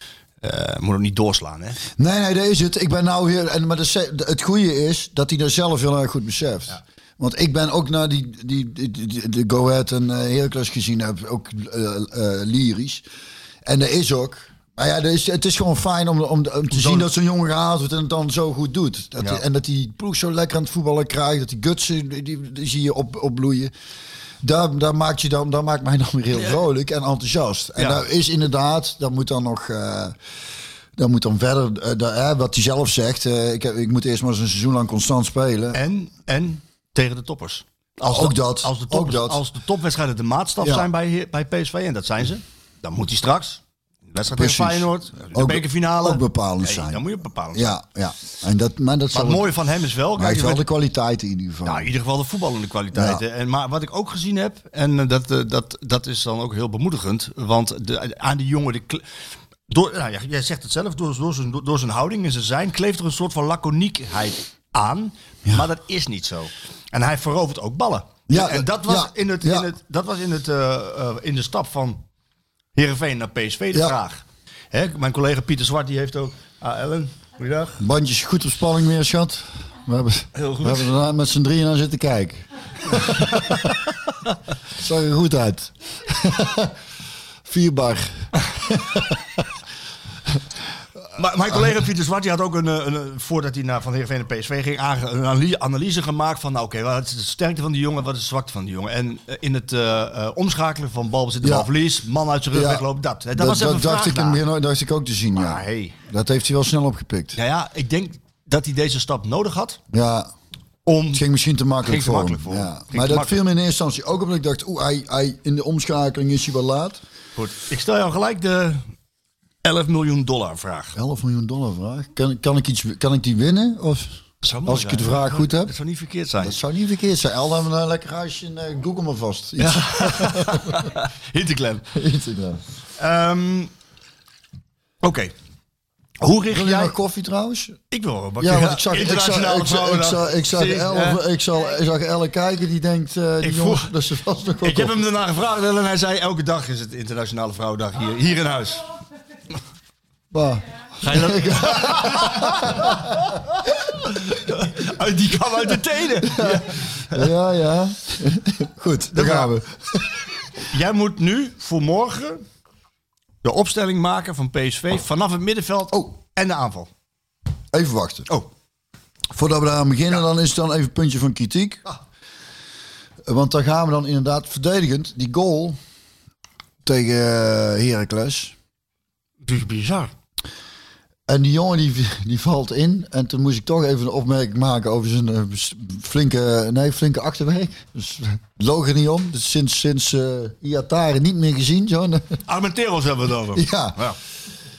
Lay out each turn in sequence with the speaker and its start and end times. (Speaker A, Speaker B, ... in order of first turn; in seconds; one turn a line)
Speaker A: 0.4-1.8
Speaker B: 2.0-13.0
Speaker B: 13.6-23.7
Speaker A: 16.7-17.1
Speaker B: 24.4-30.1
Speaker A: 27.8-28.0
Speaker B: 30.9-35.8
Speaker A: 35.7-47.7
Speaker B: 38.0-39.4
Speaker B: 40.6-40.9
Speaker B: 44.3-49.5
Speaker A: 49.1-50.7
Speaker B: 50.1-51.9
Speaker A: 51.6-59.0
Speaker B: 52.9-53.2
Speaker A: 59.7-72.0
Speaker B: 68.3-69.7
Speaker A: 72.7-77.8
Speaker B: 77.8-83.8
Speaker A: 80.3-80.9
Speaker B: 84.8-86.7
Speaker B: 87.4-89.5
Speaker A: 91.1-104.4
Speaker B: 101.4-101.7
Speaker B: 102.5-107.4
Speaker A: 105.3-106.0
Speaker A: 107.3-109.8
Speaker B: 109.9-110.3
Speaker A: 110.8-111.2
Speaker B: 111.1-117.0
Speaker A: 111.8-113.4
Speaker A: 117.3-118.8
Speaker A: 119.6-121.0
Speaker B: 120.9-125.8
Speaker A: 124.4-126.6
Speaker B: 126.4-130.9
Speaker A: 129.6-131.9
Speaker B: 131.9-132.6
Speaker A: 133.0-133.7
Speaker A: 135.0-135.3
Speaker A: 136.2-136.9
Speaker B: 136.5-137.8
Speaker A: 137.9-141.2
Speaker B: 138.4-144.9
Speaker A: 143.4-143.9
Speaker A: 144.6-148.8
Speaker B: 150.3-153.3
Speaker A: 151.0-153.6
Speaker A: 154.1-157.2
Speaker B: 156.2-160.1
Speaker A: 159.1-159.5
Speaker A: 160.6-162.4
Speaker A: 163.4-166.9
Speaker B: 167.7-168.3
Speaker B: 169.3-171.8
Speaker B: 173.2-175.8
Speaker B: 176.8-178.5
Speaker A: 179.4-180.1
Speaker B: 181.3-192.4
Speaker A: 192.5-194.2
Speaker B: 193.5-194.0